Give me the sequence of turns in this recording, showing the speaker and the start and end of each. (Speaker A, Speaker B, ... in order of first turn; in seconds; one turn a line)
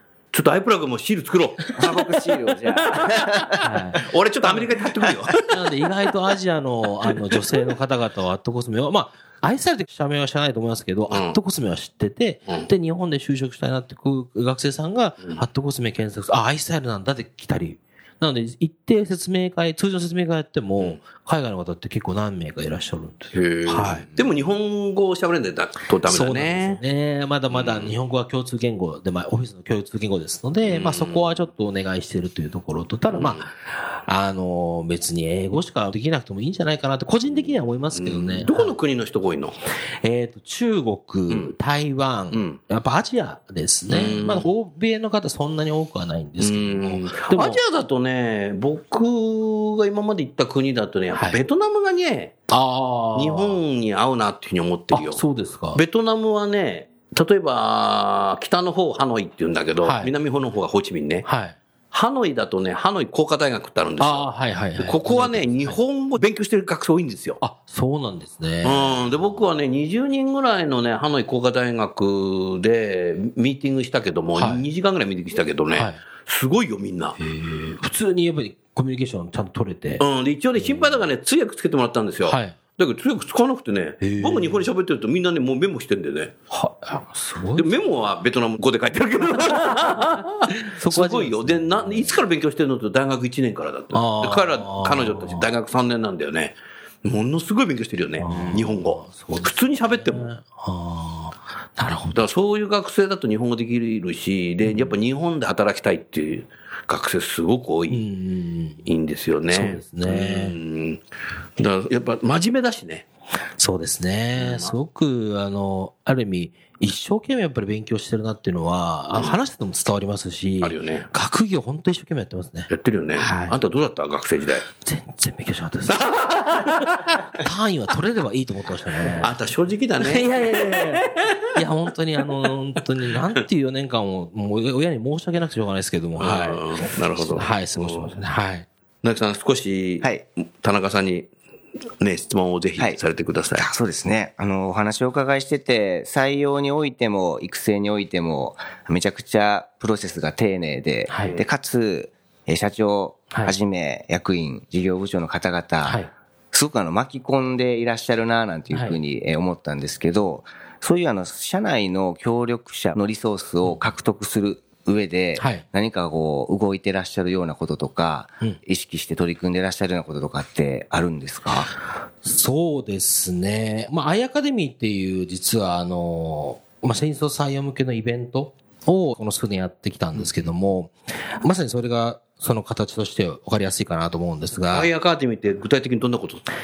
Speaker A: 0.3-2.2
Speaker B: 1.8-3.6
Speaker A: 2.8-5.6
Speaker C: 3.6-4.6
Speaker C: 5.5-24.1
Speaker A: 11.1-11.4
Speaker A: 23.3-26.8
Speaker C: 26.0-38.8
Speaker A: 27.5-27.9
Speaker A: 30.7-31.4
Speaker A: 33.1-33.5
Speaker A: 37.9-39.6
Speaker C: 40.0-47.6
Speaker A: 41.3-41.5
Speaker A: 42.3-42.6
Speaker A: 43.9-44.5
Speaker A: 46.4-52.4
Speaker C: 51.1-51.4
Speaker C: 52.5-53.6
Speaker A: 53.1-55.2
Speaker C: 54.9-55.8
Speaker A: 55.7-61.3
Speaker C: 59.8-60.1
Speaker C: 61.2-61.6
Speaker A: 61.9-67.4
Speaker C: 64.0-65.8
Speaker C: 67.4-69.1
Speaker A: 68.6-77.2
Speaker C: 74.3-74.7
Speaker C: 77.2-80.0
Speaker A: 80.0-86.3
Speaker C: 80.6-81.1
Speaker C: 82.2-82.6
Speaker C: 84.0-84.7
Speaker C: 86.5-87.9
Speaker A: 87.6-100.2
Speaker C: 89.6-90.1
Speaker C: 90.6-92.2
Speaker C: 93.9-95.5
Speaker C: 98.2-102.2
Speaker A: 102.1-108.0
Speaker C: 104.7-104.9
Speaker C: 107.9-108.9
Speaker A: 108.9-111.0
Speaker C: 109.5-110.6
Speaker A: 111.6-113.0
Speaker C: 113.6-123.6
Speaker A: 114.4-114.7
Speaker A: 120.6-121.1
Speaker A: 122.7-124.7
Speaker C: 124.8-129.3
Speaker A: 125.9-127.2
Speaker A: 129.2-131.4
Speaker C: 130.0-138.7
Speaker A: 136.2-138.2
Speaker A: 139.0-141.3
Speaker A: 142.0-143.7
Speaker B: 143.6-171.7
Speaker C: 151.1-151.4
Speaker C: 155.8-156.1
Speaker C: 158.7-159.0
Speaker C: 165.4-165.7
Speaker C: 172.2-184.9
Speaker A: 184.7-186.4